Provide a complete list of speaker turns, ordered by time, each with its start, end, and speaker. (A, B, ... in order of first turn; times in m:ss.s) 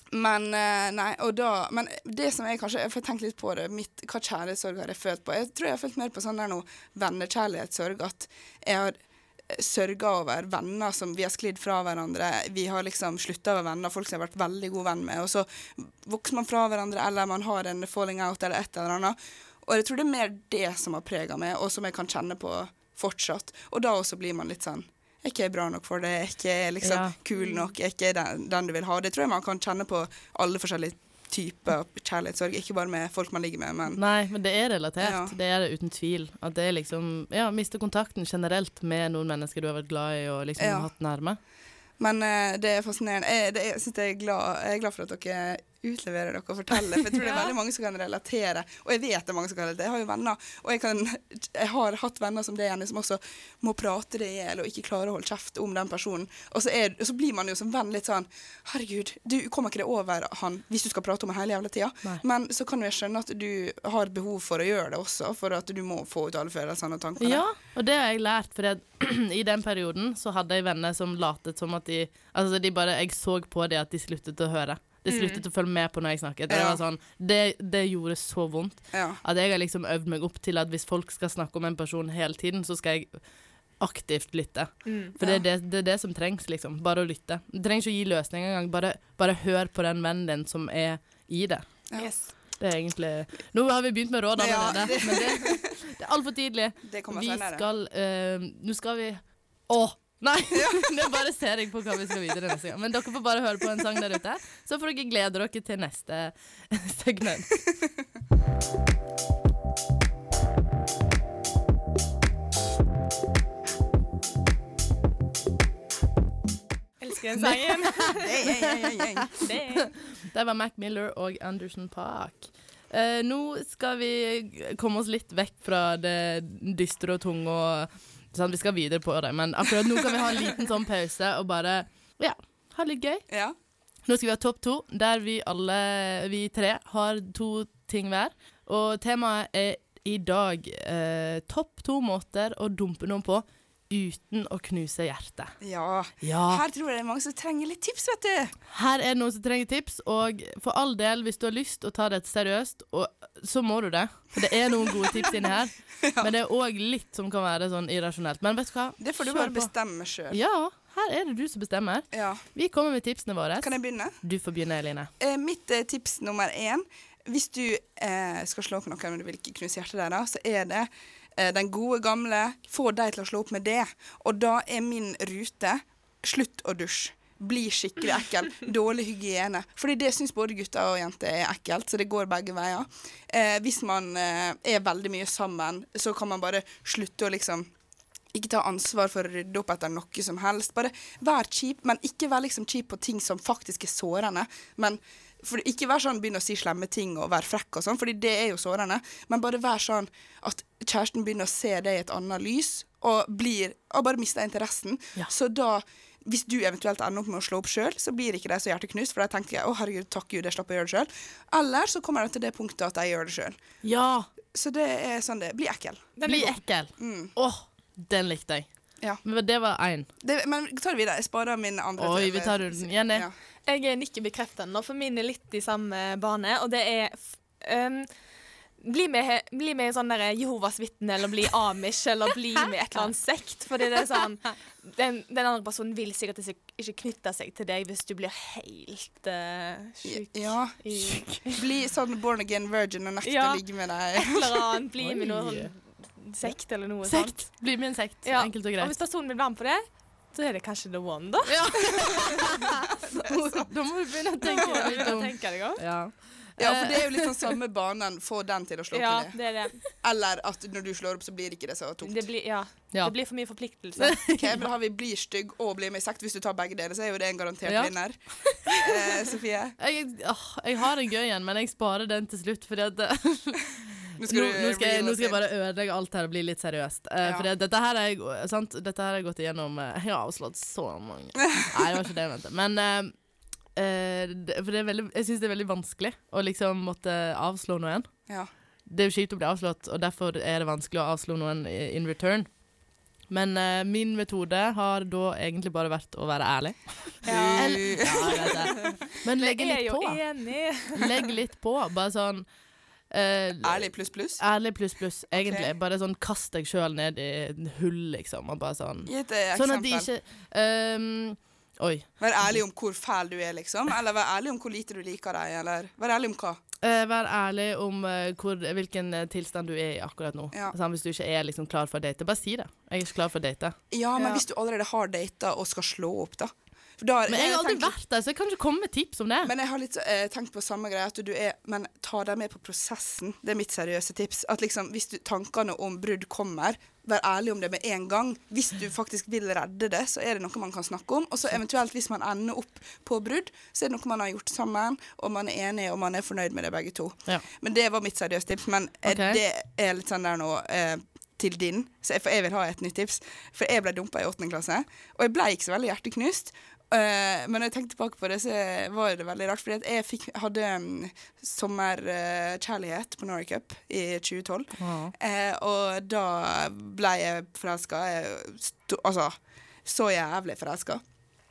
0:00.1-0:34.0 A
0:26.8-0:27.2 B
0:27.4-0:27.7 C
0:33.9-0:41.4 B
0:35.0-0:35.4 A
0:40.6-0:40.9 A
0:42.0-1:07.4 A
0:47.2-0:47.5 C
1:07.2-1:47.7 B
1:15.1-1:15.4 C
1:16.5-1:16.8 A
1:18.9-1:19.2 A
1:24.8-1:25.1 C
1:25.2-1:25.4 A
1:32.0-1:32.3 C
1:34.4-1:35.6 A
1:36.8-1:37.7 A
1:40.5-1:40.9 A
1:57.0-1:58.5 C
1:58.1-1:59.3 A
1:59.4-1:59.9 C
2:00.0-2:13.2 B
2:13.3-2:13.6 A
2:14.0-2:25.6 B
2:25.6-2:28.5 A
2:26.2-2:26.6 B
2:28.7-2:39.7 B
2:34.9-2:35.3 A
2:36.0-2:36.3 A
2:39.0-2:40.4 A
2:40.3-2:45.1 B
2:42.1-2:42.4 A
2:43.6-2:44.2 A
2:45.2-3:07.7 A
3:08.3-3:33.6 A
3:33.8-3:34.3 B
3:34.5-3:36.1 A
3:36.2-3:36.6 C
3:36.2-3:38.7 B
3:37.0-3:37.3 A
3:39.2-3:40.1 B
3:40.2-3:43.3 A
3:42.0-3:43.3 B
3:43.7-3:48.1 C
3:48.8-4:01.6 C
4:00.0-4:04.6 A
4:03.2-4:07.7 C
4:05.0-4:09.0 B
4:08.2-4:12.4 C
4:11.5-4:17.5 B
4:13.2-4:13.7 A
4:14.4-4:15.8 C
4:14.6-4:15.0 A
4:16.6-4:22.3 A
4:18.9-4:19.8 C
4:22.0-4:24.2 C
4:22.9-4:24.7 B
4:24.3-4:29.8 A
4:27.7-4:28.8 B
4:29.8-4:43.2 B
4:34.2-4:35.4 A
4:37.2-4:37.5 A
4:43.7-4:48.4 B
4:48.9-4:52.6 B
4:53.3-5:02.5 B
4:57.2-4:58.7 A
4:57.2-5:01.1 C
5:03.1-5:12.6 B
5:03.6-5:04.4 A
5:05.3-5:05.7 A
5:09.1-5:10.1 A
5:12.2-5:16.6 A
5:16.8-5:23.8 B
5:23.9-5:28.0 A
5:27.3-5:29.5 B
5:29.4-6:11.0 A
5:49.1-5:49.4 B
6:04.8-6:05.1 B